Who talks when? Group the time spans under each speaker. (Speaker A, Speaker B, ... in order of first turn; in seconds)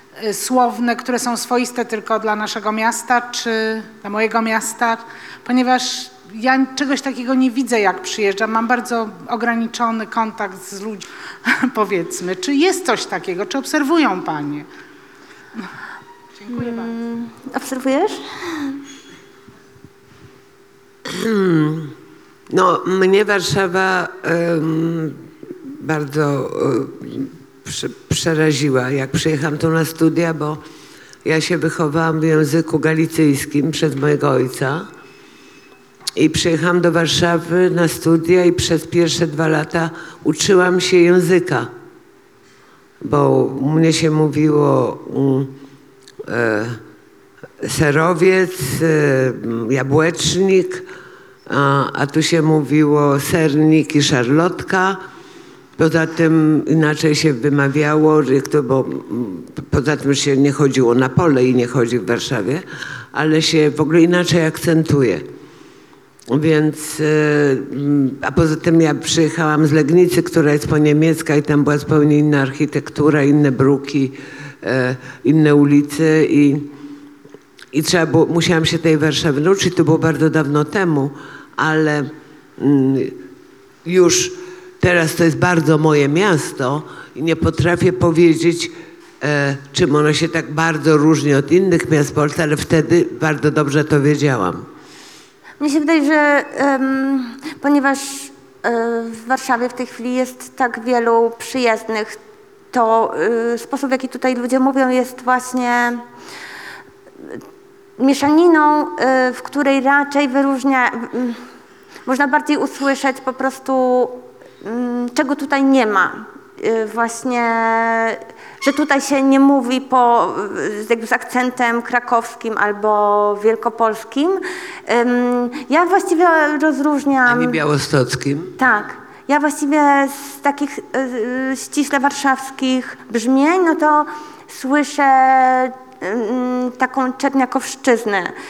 Speaker A: 0.2-14.7, 16.4-17.0
Speaker B: 16.5-18.8, 95.6-102.2, 102.7-106.0, 108.0-111.4, 112.1-127.6, 128.6-138.3
Speaker C: 21.1-21.9, 22.5-30.6, 31.2-34.9, 36.2-41.7, 43.0-45.6, 46.2-46.8, 47.6-50.9, 51.5-55.0, 55.8-65.2, 66.3-76.7, 77.7-83.2, 83.8-94.7, 127.3-128.6